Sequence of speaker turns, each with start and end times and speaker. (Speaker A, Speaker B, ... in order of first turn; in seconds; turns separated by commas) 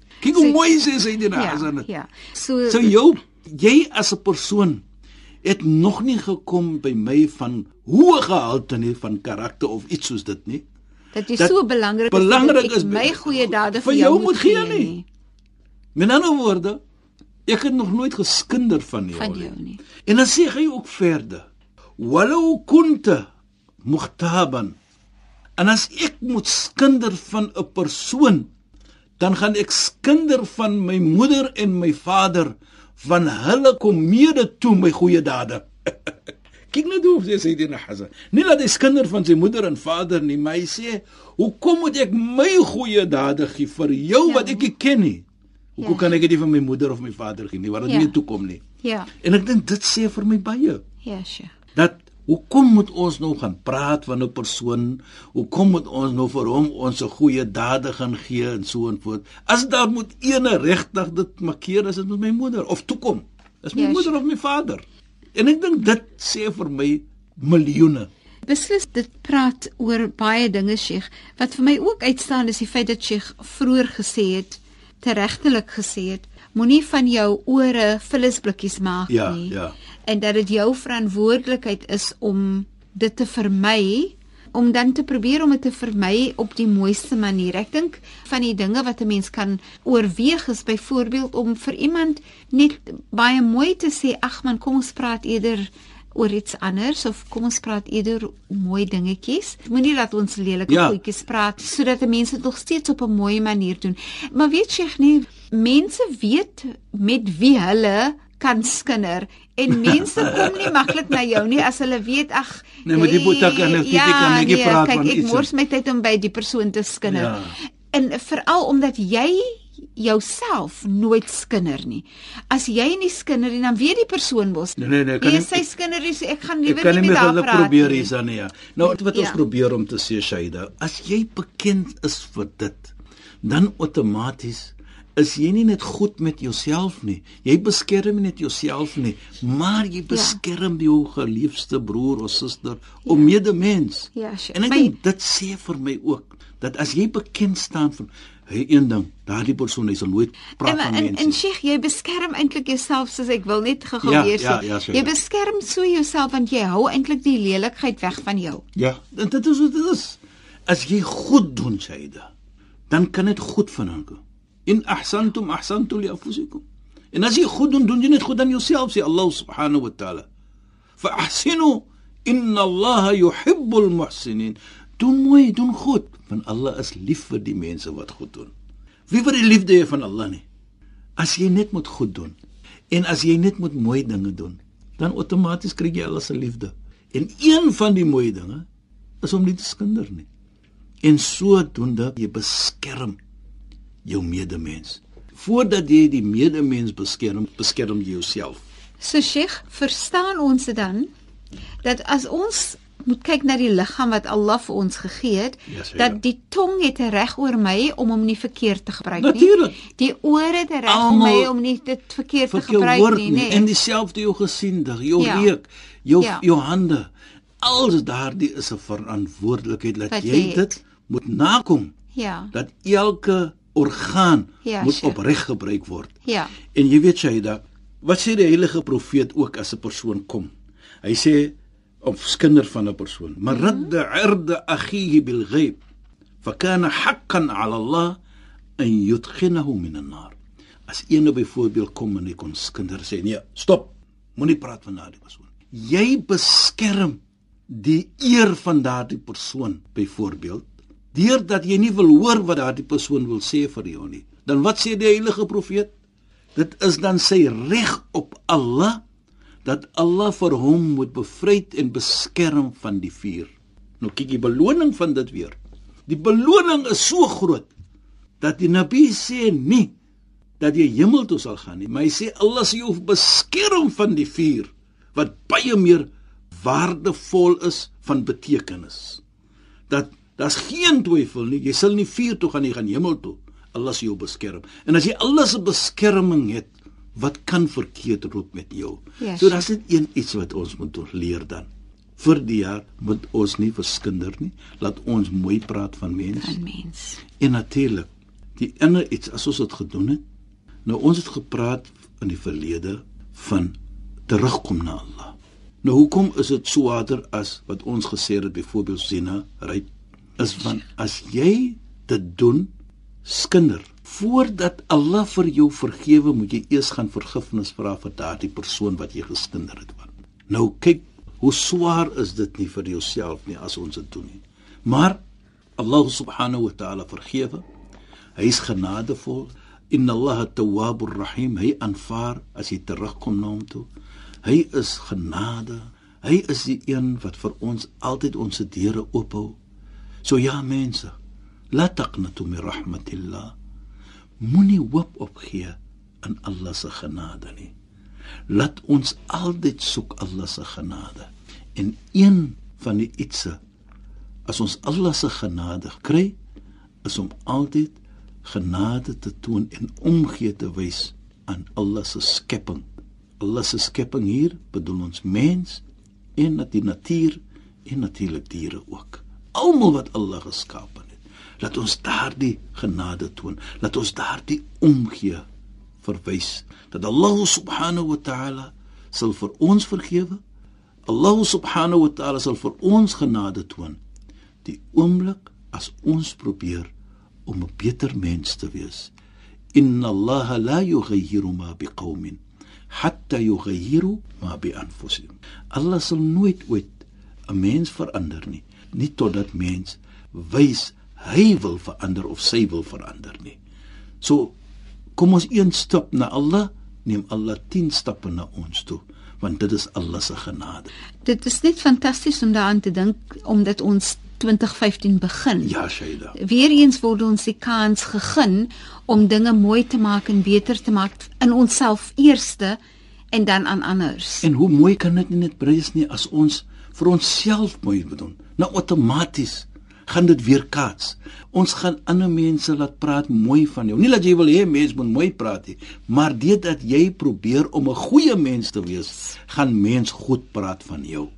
Speaker A: 0.2-1.9, Speaker B: 0.3-0.6, Speaker B: 1.3-3.0, Speaker A: 2.7-4.8, Speaker A: 5.4-10.6, Speaker B: 11.1-15.1, Speaker A: 12.1-14.9, Speaker A: 16.0-16.8, Speaker A: 17.5-19.5, Speaker B: 19.1-19.8, Speaker A: 20.1-21.4, Speaker A: 22.0-23.3, Speaker A: 23.8-24.8, Speaker A: 25.6-28.5, Speaker A: 29.2-36.1, Speaker A: 36.7-45.2, Speaker B: 44.2-44.7, Speaker A: 45.8-48.6, Speaker B: 45.8-46.1, Speaker B: 47.8-48.2, Speaker B: 48.8-49.1, Speaker A: 49.2-50.8, Speaker B: 51.0-51.5, Speaker A: 51.8-64.8, Speaker B: 63.8-64.2, Speaker A: 65.3-68.1, Speaker B: 68.5-79.6, Speaker A: 79.1-79.8, Speaker B: 80.1-128.1, Speaker A: 100.7-101.0, Speaker A: 109.7-111.4, Speaker A: 112.8-115.5, Speaker A: 117.1-117.6, Speaker A: 124.8-125.7, Speaker A: 126.7-151.4, Speaker B: 129.0-129.4, Speaker B: 140.1-140.4, Speaker B: 143.1-143.3, Speaker B: 144.1-144.9, Speaker B: 150.6-158.6, Speaker A: 154.0-155.1, Speaker A: 158.8-162.3, Speaker A: 162.9-170.3, Speaker A: 171.0-178.5, Speaker A: 179.1-180.4, Speaker A: 181.2-182.4, Speaker A: 182.9-188.7, Speaker A: 189.2-190.3, Speaker A: 191.0-193.2, Speaker A: 194.1-198.6, Speaker B: 199.0-201.1, Speaker B: 201.8-213.7, Speaker A: 205.7-206.2, Speaker A: 209.2-209.8, Speaker A: 210.9-211.5, Speaker A: 212.5-221.9, Speaker B: 215.2-215.5, Speaker B: 216.2-216.4, Speaker B: 220.1-220.8, Speaker B: 222.1-222.5, Speaker A: 222.5-226.1, Speaker B: 224.6-225.2, Speaker B: 226.2-226.6, Speaker A: 226.7-230.5, Speaker A: 231.0-235.8, Speaker B: 233.5-233.9, Speaker A: 236.4-238.2, Speaker A: 238.8-240.3, Speaker A: 240.9-255.9, Speaker A: 256.6-259.0, Speaker A: 259.6-265.6, Speaker A: 266.1-267.7, Speaker A: 268.4-269.9, Speaker A: 270.6-279.2, Speaker A: 279.9-296.6, Speaker B: 289.2-289.6, Speaker B: 296.4-297.2, Speaker A: 297.4-300.2, Speaker A: 300.9-303.7, Speaker A: 304.3-312.7, Speaker A: 313.2-325.2, Speaker A: 325.8-327.6, Speaker A: 328.4-333.9, Speaker A: 334.4-339.6, Speaker A: 340.2-341.1, Speaker A: 341.7-343.5, Speaker A: 344.4-347.7, Speaker A: 348.5-353.6, Speaker A: 354.5-356.4, Speaker A: 357.0-362.9, Speaker A: 363.4-365.8, Speaker A: 366.4-375.4, Speaker A: 376.0-380.4, Speaker A: 381.1-384.0, Speaker A: 384.6-386.9, Speaker A: 387.5-389.1, Speaker A: 389.7-392.4, Speaker A: 392.9-397.0, Speaker A: 397.5-403.6, Speaker A: 404.2-404.5, Speaker A: 405.2-410.9, Speaker B: 411.2-415.8, Speaker A: 415.6-416.4, Speaker B: 416.4-422.8, Speaker B: 423.3-424.5, Speaker A: 424.4-441.3